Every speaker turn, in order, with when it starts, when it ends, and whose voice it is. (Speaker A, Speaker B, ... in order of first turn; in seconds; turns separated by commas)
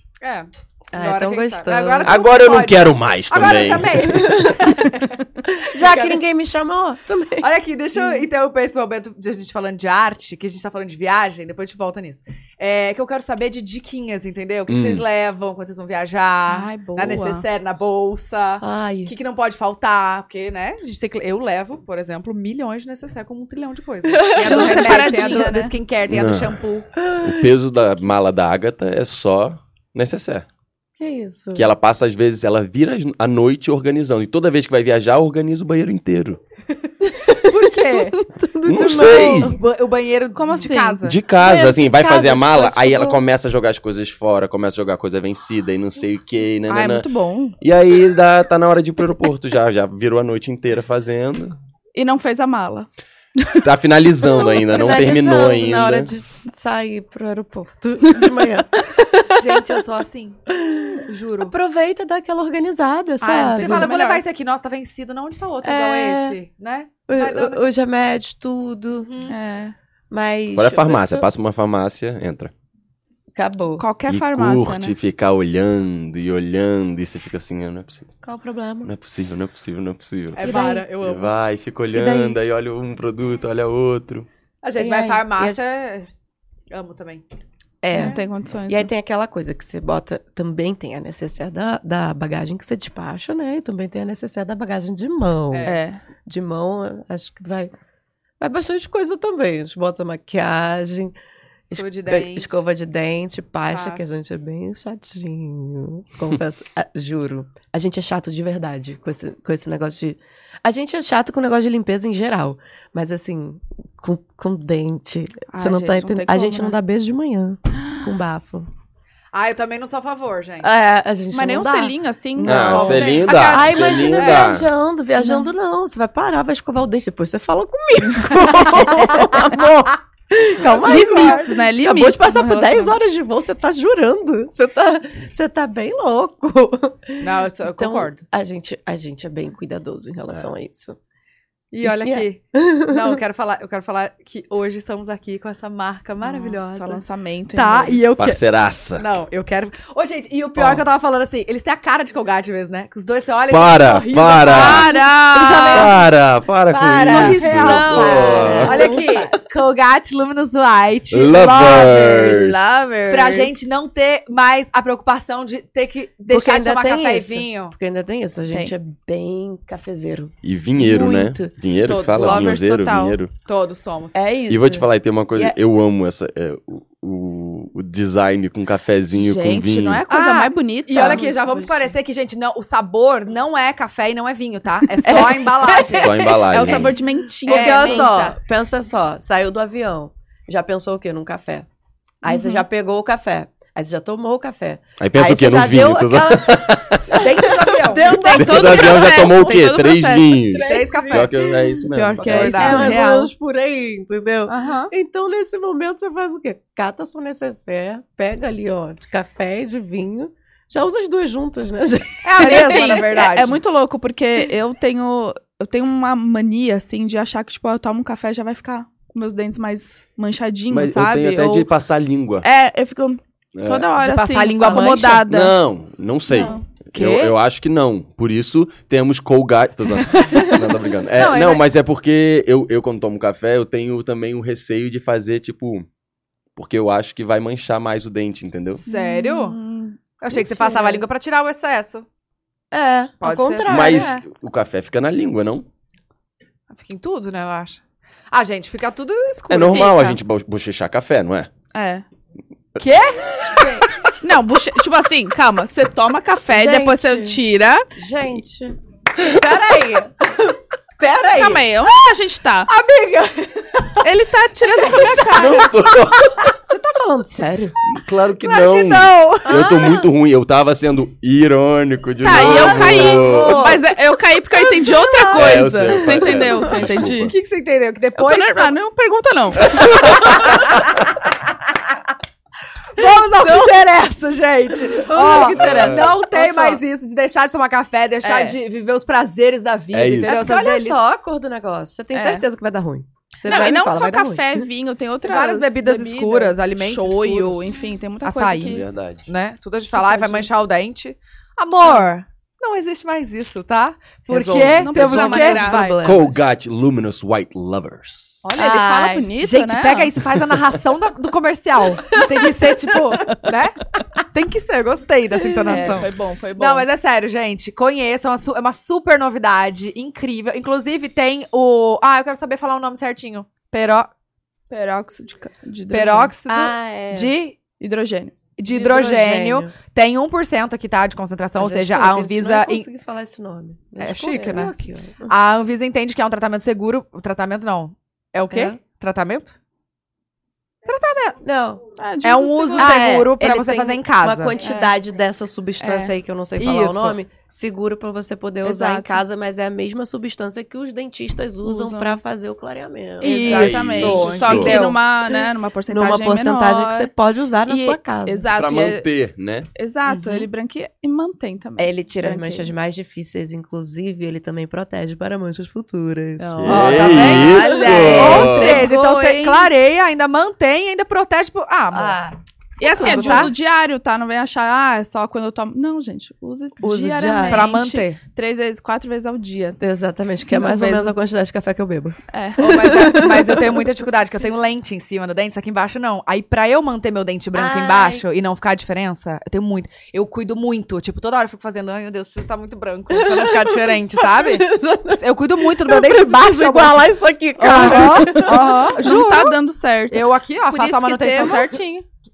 Speaker A: 0.2-6.2, Speaker B: 0.9-2.2, Speaker C: 2.0-4.2, Speaker B: 4.0-7.5, Speaker A: 7.4-26.9, Speaker C: 14.7-15.0, Speaker D: 16.5-17.4, Speaker B: 18.6-19.1, Speaker B: 24.1-25.5, Speaker D: 24.2-25.8, Speaker C: 26.1-26.6, Speaker B: 27.1-27.5, Speaker C: 27.1-30.5, Speaker B: 31.0-31.7, Speaker C: 31.5-36.4, Speaker B: 37.0-39.6, Speaker A: 37.4-38.2, Speaker C: 38.6-39.6, Speaker A: 39.0-41.2, Speaker D: 40.4-41.0, Speaker C: 41.0-47.1, Speaker B: 41.4-43.2, Speaker D: 46.7-47.6, Speaker C: 47.6-51.6, Speaker D: 51.9-53.7, Speaker C: 53.6-56.1, Speaker B: 54.5-59.8, Speaker A: 59.3-60.4, Speaker B: 60.5-64.0, Speaker A: 61.0-61.5, Speaker A: 63.2-67.7, Speaker D: 63.5-64.2, Speaker B: 65.6-66.4, Speaker B: 67.1-69.1, Speaker A: 69.0-69.3, Speaker D: 69.3-69.7, Speaker B: 70.1-71.3, Speaker C: 70.5-72.5, Speaker B: 73.3-73.9, Speaker D: 73.8-75.0, Speaker C: 74.1-78.1, Speaker B: 78.2-78.9, Speaker C: 78.8-84.3, Speaker A: 80.4-81.3, Speaker B: 80.4-80.9, Speaker B: 81.9-82.4, Speaker A: 84.6-86.1, Speaker B: 84.8-85.6, Speaker A: 86.7-87.2, Speaker B: 87.8-95.7, Speaker A: 87.9-88.2, Speaker D: 87.9-88.9, Speaker A: 95.5-95.8, Speaker D: 95.7-96.0, Speaker B: 96.3-97.7, Speaker B: 98.4-101.2, Speaker B: 101.7-118.7, Speaker A: 101.7-102.6, Speaker A: 103.7-104.1, Speaker D: 115.5-116.8, Speaker A: 119.3-120.7, Speaker B: 120.6-141.0, Speaker D: 121.3-123.2, Speaker A: 122.4-124.6, Speaker C: 122.5-124.7, Speaker D: 125.2-125.5, Speaker D: 128.3-128.8, Speaker A: 130.6-131.6, Speaker D: 130.7-133.0, Speaker A: 137.2-138.2, Speaker A: 141.7-148.4, Speaker B: 141.8-143.2, Speaker D: 146.3-148.1, Speaker C: 148.2-149.1, Speaker A: 148.9-156.0, Speaker C: 153.5-154.9, Speaker D: 154.4-155.9, Speaker B: 155.3-155.9, Speaker C: 155.6-158.9, Speaker B: 156.7-159.4, Speaker D: 156.9-158.8, Speaker A: 157.1-162.5, Speaker C: 161.1-162.7, Speaker D: 161.6-163.6, Speaker A: 163.1-167.8, Speaker B: 166.3-171.6, Speaker D: 168.5-168.7, Speaker C: 170.4-173.3, Speaker A: 171.8-172.6, Speaker D: 172.1-173.2, Speaker A: 173.5-174.2, Speaker B: 174.1-175.6, Speaker C: 174.5-180.0, Speaker D: 179.1-181.3, Speaker A: 180.1-186.9, Speaker B: 180.9-181.9, Speaker B: 185.1-186.4, Speaker D: 185.1-188.3, Speaker C: 185.9-187.0, Speaker B: 187.4-191.7, Speaker A: 187.5-188.4, Speaker B: 192.2-199.5, Speaker D: 192.2-192.6, Speaker C: 195.0-197.3, Speaker A: 197.1-198.3, Speaker D: 197.9-200.6, Speaker C: 198.3-203.0, Speaker B: 200.5-213.1, Speaker A: 200.6-201.4, Speaker D: 201.9-203.3, Speaker A: 202.2-203.0, Speaker A: 204.5-204.9, Speaker A: 212.2-213.6, Speaker D: 212.4-221.7, Speaker C: 220.7-222.4, Speaker D: 222.4-225.6, Speaker C: 223.6-223.9, Speaker A: 224.0-225.2, Speaker B: 224.6-225.2, Speaker C: 225.3-235.9, Speaker D: 226.3-226.6, Speaker A: 226.4-227.3, Speaker A: 231.1-231.7, Speaker C: 236.6-238.8, Speaker A: 238.8-239.6, Speaker D: 238.9-240.0, Speaker A: 240.2-242.1, Speaker B: 240.3-241.1, Speaker B: 242.7-244.2, Speaker A: 243.2-244.2, Speaker C: 243.7-245.7, Speaker A: 246.7-247.8, Speaker A: 248.3-250.2, Speaker C: 249.5-251.5, Speaker D: 251.7-252.0, Speaker A: 252.8-253.9, Speaker D: 254.2-257.9, Speaker B: 256.5-257.4, Speaker B: 257.9-261.7, Speaker D: 261.3-262.7, Speaker B: 262.7-264.0, Speaker D: 264.0-265.8, Speaker B: 264.8-267.8, Speaker C: 265.3-266.5, Speaker C: 267.9-273.8, Speaker D: 268.5-269.8, Speaker B: 269.3-270.1, Speaker D: 272.2-277.4, Speaker B: 272.3-273.9, Speaker B: 274.5-277.1, Speaker C: 275.3-277.4, Speaker A: 277.2-278.8, Speaker D: 278.2-280.6, Speaker C: 279.7-280.2, Speaker A: 282.9-291.0, Speaker B: 283.0-283.7, Speaker B: 284.9-286.8, Speaker C: 285.5-286.1, Speaker D: 288.2-288.6, Speaker C: 289.9-290.5, Speaker B: 290.2-294.7, Speaker D: 292.1-292.4, Speaker D: 293.4-298.9, Speaker A: 295.2-297.6, Speaker A: 298.2-306.2, Speaker C: 298.6-299.3, Speaker B: 300.0-300.5, Speaker B: 304.3-306.4, Speaker D: 304.7-305.9, Speaker C: 306.0-308.4, Speaker D: 308.4-310.1, Speaker B: 308.6-309.3, Speaker A: 309.4-324.1, Speaker B: 315.6-316.1, Speaker D: 315.7-316.9, Speaker D: 324.7-326.3, Speaker A: 325.9-327.6, Speaker B: 326.5-327.3, Speaker D: 327.8-328.4, Speaker A: 328.6-332.9, Speaker B: 328.7-329.7, Speaker B: 331.6-335.3, Speaker A: 334.0-339.6, Speaker D: 334.3-334.7, Speaker B: 338.5-338.8, Speaker A: 340.9-341.4, Speaker B: 341.4-341.8, Speaker D: 342.0-343.1, Speaker A: 342.2-344.6, Speaker B: 342.8-358.5, Speaker D: 344.6-345.0, Speaker D: 345.8-346.1, Speaker A: 346.6-347.2, Speaker D: 348.6-349.2, Speaker D: 351.6-352.2, Speaker A: 353.2-355.0, Speaker D: 353.2-357.1, Speaker C: 353.5-354.8, Speaker D: 357.7-359.1, Speaker C: 358.6-359.7, Speaker D: 359.8-362.7, Speaker A: 360.1-360.5, Speaker B: 361.8-369.0, Speaker C: 366.5-368.8, Speaker A: 366.6-372.2, Speaker D: 367.1-369.7, Speaker B: 371.9-373.5, Speaker D: 372.8-379.8, Speaker A: 372.8-373.5, Speaker B: 376.8-377.7, Speaker A: 377.5-378.2, Speaker B: 379.8-383.8, Speaker D: 380.4-381.1, Speaker D: 382.3-383.2, Speaker A: 382.6-397.1, Speaker B: 387.5-388.2, Speaker B: 393.1-399.1, Speaker D: 397.6-401.8, Speaker A: 397.7-399.5, Speaker A: 400.1-402.1, Speaker B: 401.4-401.8